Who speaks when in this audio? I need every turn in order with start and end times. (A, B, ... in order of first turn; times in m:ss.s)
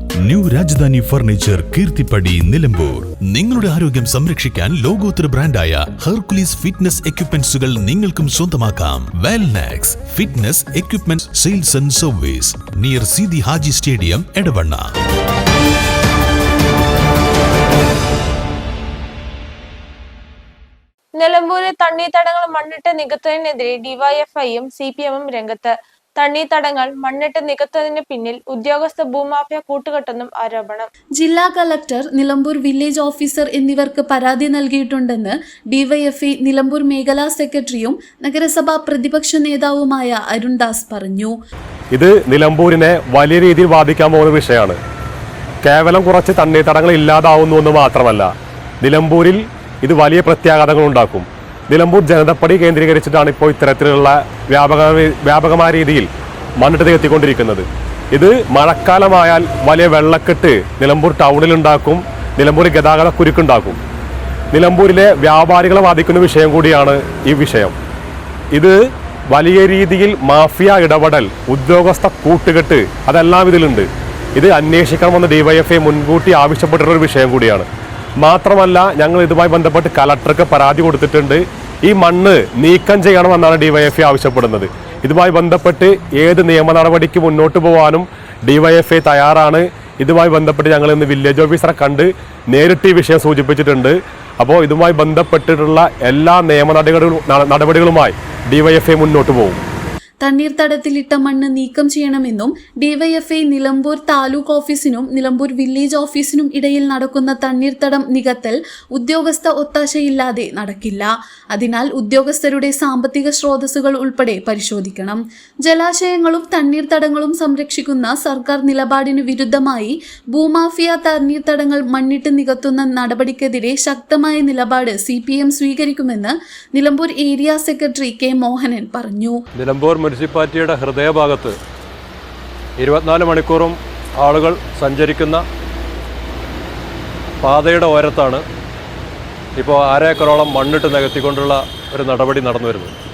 0:00.2-0:14.9 A
0:21.2-0:30.9 B
0:31.2-0:41.4 C
0:41.9-0:44.8 D
0:45.6-0:48.3 D
0:48.8-0:56.1 D
0:56.6-1:03.8 D
1:04.5-1:07.8 D
1:09.3-1:17.7 D
1:18.2-1:39.6 D
1:40.2-2:09.4 C
2:09.6-2:11.6 E
2:12.8-2:15.4 E
2:17.4-2:18.4 E
2:19.6-2:22.9 E